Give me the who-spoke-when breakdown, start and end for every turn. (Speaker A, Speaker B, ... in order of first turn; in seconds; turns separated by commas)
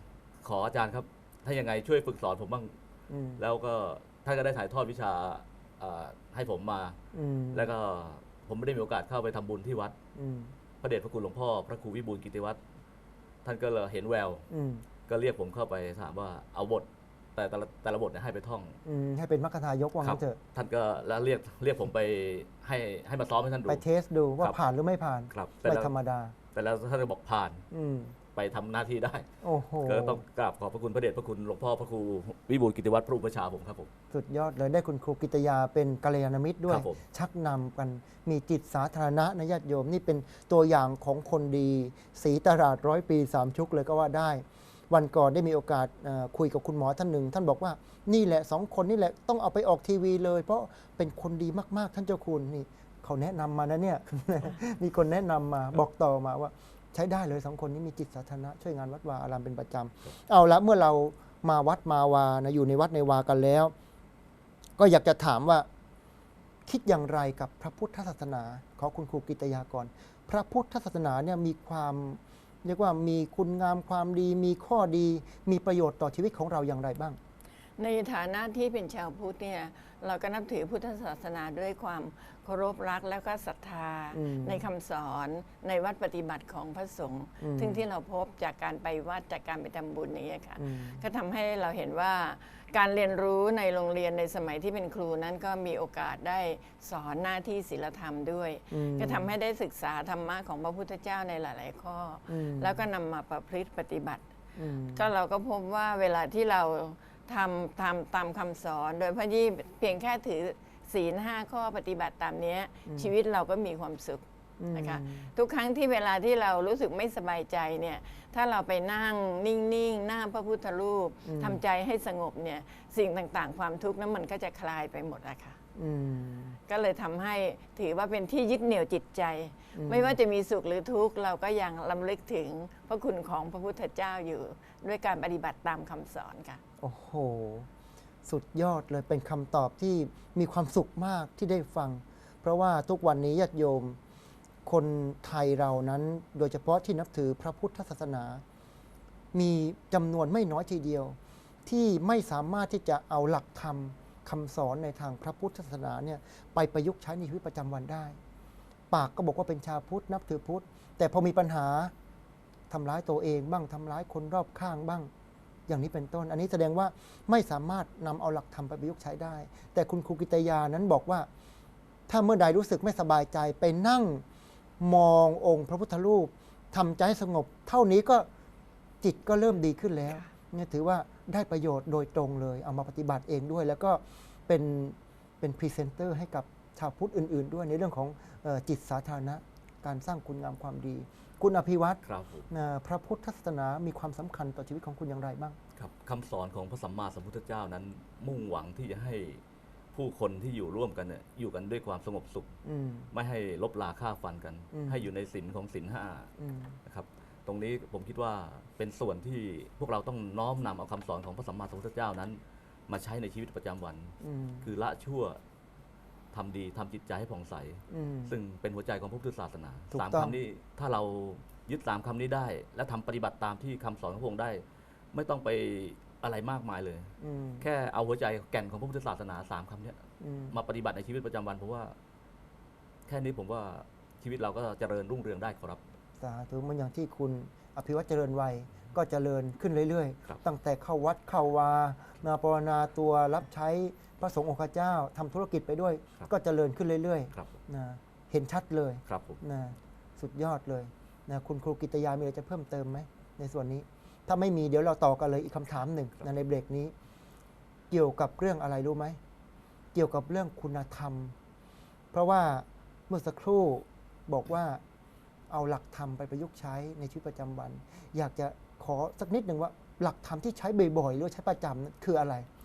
Speaker A: 0.4-2.7, Speaker B: 3.1-3.4, Speaker A: 3.4-7.0, Speaker B: 7.1-7.7, Speaker A: 7.5-9.9, Speaker B: 10.1-10.5, Speaker A: 10.8-12.6, Speaker A: 13.4-14.4, Speaker B: 14.5-14.8, Speaker A: 15.1-18.8, Speaker B: 18.8-20.4, Speaker A: 20.0-23.8, Speaker B: 23.7-26.3, Speaker A: 25.3-25.9, Speaker A: 26.5-27.6, Speaker B: 27.7-28.1, Speaker A: 28.3-29.3, Speaker B: 29.4-30.2, Speaker A: 29.8-33.9, Speaker B: 34.1-63.7, Speaker A: 36.6-37.0, Speaker B: 64.8-65.7, Speaker B: 66.7-77.2, Speaker C: 77.8-104.3, Speaker B: 84.1-84.7, Speaker B: 87.4-87.8, Speaker B: 90.6-91.0, Speaker B: 98.7-99.3, Speaker B: 102.3-102.8, Speaker B: 104.5-105.1, Speaker C: 104.9-125.6, Speaker B: 114.6-115.3, Speaker B: 121.2-121.6, Speaker B: 125.7-126.6, Speaker C: 126.7-136.6, Speaker B: 129.7-130.2, Speaker B: 136.8-137.7, Speaker B: 138.2-144.0, Speaker B: 144.6-148.4, Speaker B: 149.3-158.2, Speaker B: 158.9-161.9, Speaker B: 162.7-165.1, Speaker B: 165.7-171.3, Speaker B: 172.1-174.2, Speaker B: 174.8-178.3, Speaker B: 179.0-195.6, Speaker A: 192.0-192.5, Speaker A: 195.8-199.4, Speaker A: 199.9-202.5, Speaker B: 202.6-203.1, Speaker A: 203.1-206.3, Speaker B: 204.7-205.0, Speaker B: 206.4-206.7, Speaker A: 206.8-215.4, Speaker B: 214.2-214.7, Speaker A: 216.3-231.9, Speaker B: 217.9-218.4, Speaker B: 219.9-220.3, Speaker B: 227.2-227.6, Speaker B: 230.2-230.5, Speaker A: 233.1-235.8, Speaker B: 236.2-256.9, Speaker A: 249.1-249.4, Speaker B: 257.9-259.2, Speaker B: 259.9-261.3, Speaker B: 262.1-264.8, Speaker B: 265.5-272.5